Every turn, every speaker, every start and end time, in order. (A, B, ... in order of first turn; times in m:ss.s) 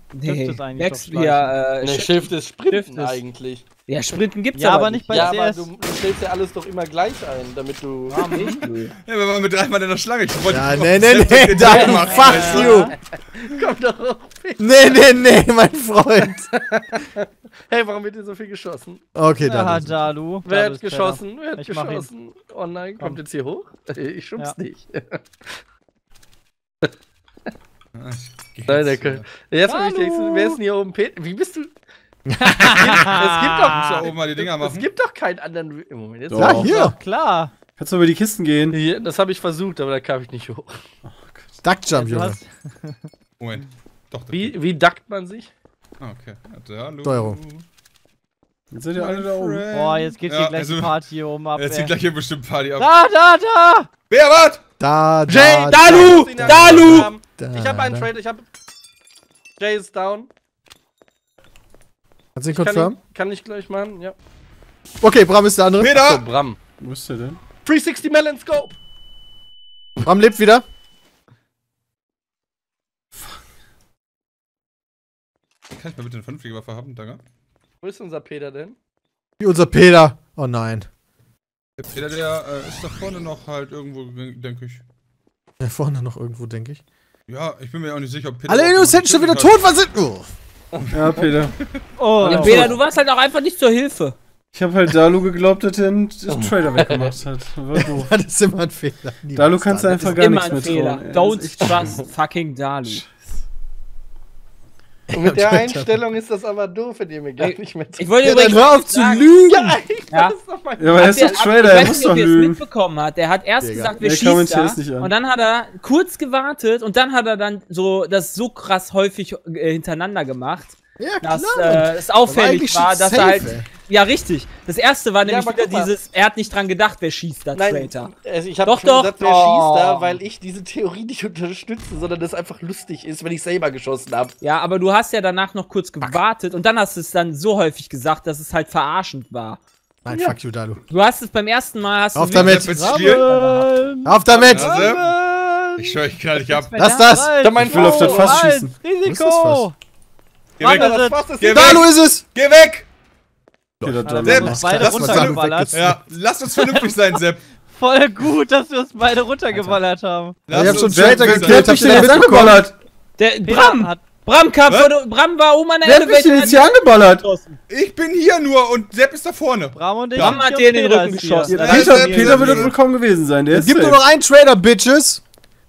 0:00.1-0:03.2 A
0:00.2-0:01.5 B
0:01.8-0:03.6 C
0:03.9-0:05.3 A
0:04.6-0:05.7 B
0:05.0-0:08.5 C
0:08.1-0:08.6 B
0:08.3-0:08.9 A
0:09.0-0:12.6 D
0:10.5-0:12.9 E
0:11.6-0:12.8 A
0:11.8-0:14.6 C
0:12.0-0:12.9 B
0:14.6-0:16.5 E
0:16.4-0:19.0 C
0:19.1-0:20.1 E
0:19.4-0:22.1 B
0:20.4-0:25.6 C
0:28.0-0:29.2 D
0:28.7-0:31.7 C
0:29.6-0:30.6 B
0:32.3-0:33.0 E
0:32.4-0:33.9 B
0:32.6-0:36.6 C
0:33.7-0:34.9 D
0:36.3-0:36.9 F
0:36.3-0:36.9 E
0:36.6-0:37.5 B
0:37.7-0:38.8 F
0:38.7-0:40.8 C
0:41.0-0:41.6 F
0:41.6-0:42.4 E
0:41.9-0:43.1 B
0:43.4-0:44.5 D
0:44.3-0:45.5 C
0:46.0-0:47.6 D
0:47.0-0:47.4 E
0:48.7-0:49.7 F
0:48.9-0:51.0 D
0:49.7-0:51.9 B
0:51.5-0:52.9 D
0:52.8-0:53.9 B
0:54.1-0:54.6 D
0:54.8-0:58.1 E
0:55.3-0:58.4 C
0:55.7-0:57.1 A
0:59.6-1:00.3 C
1:02.3-1:03.0 E
1:02.5-1:04.1 C
1:05.0-1:06.2 E
1:05.8-1:06.2 D
1:06.1-1:06.6 C
1:06.8-1:07.4 F
1:07.6-1:08.7 C
1:10.0-1:10.6 E
1:15.7-1:17.2 D
1:17.8-1:18.8 C
1:19.4-1:20.9 E
1:21.8-1:24.8 D
1:25.6-1:26.8 E
1:27.3-1:29.6 D
1:28.5-1:30.3 E
1:30.7-1:31.2 C
1:30.9-1:31.6 F
1:32.0-1:32.7 B
1:32.2-1:32.7 F
1:32.2-1:34.2 A
1:34.5-1:38.1 F
1:36.3-1:37.2 C
1:38.0-1:40.2 E
1:39.4-1:42.0 F
1:39.9-1:43.0 A
1:45.1-1:46.0 E
1:45.1-1:48.1 C
1:47.4-1:49.3 A
1:48.2-1:49.8 E
1:49.5-1:52.1 C
1:50.8-1:52.6 F
1:51.0-2:08.1 A
1:53.6-1:54.0 E
1:54.0-1:55.1 F
2:01.0-2:03.7 E
2:05.2-2:05.9 C
2:07.6-2:14.3 C
2:08.6-2:10.2 A
2:14.4-2:19.6 A
2:20.0-2:20.8 E
2:20.1-2:20.4 C
2:20.9-2:23.0 A
2:22.1-2:23.0 E
2:22.3-2:23.3 D
2:22.7-2:24.3 B
2:23.4-2:25.9 C
2:24.0-2:24.8 E
2:24.5-2:25.1 D
2:25.8-2:26.8 D
2:26.5-2:27.2 A
2:26.8-2:27.5 E
2:27.1-2:29.7 B
2:27.4-2:28.5 C
2:27.5-2:28.8 F
2:29.0-2:29.7 E
2:30.6-2:32.9 D
2:30.6-2:31.3 B
2:30.6-2:31.9 C
2:31.5-2:32.2 E
2:33.8-2:36.0 E
2:33.8-2:34.8 F
2:34.0-2:35.7 B
2:34.1-2:37.4 D
2:36.5-2:37.0 B
2:37.7-2:40.4 B
2:40.5-2:42.1 D
2:40.5-2:42.6 E
2:40.5-2:42.7 F
2:43.2-2:46.9 A
2:43.4-2:44.0 B
2:44.7-2:44.9 D
2:45.8-2:47.3 F
2:47.7-2:50.4 D
2:49.8-2:51.5 B
2:50.1-2:52.6 A
2:51.5-2:54.0 F
2:51.5-2:52.8 D
2:53.5-2:55.2 E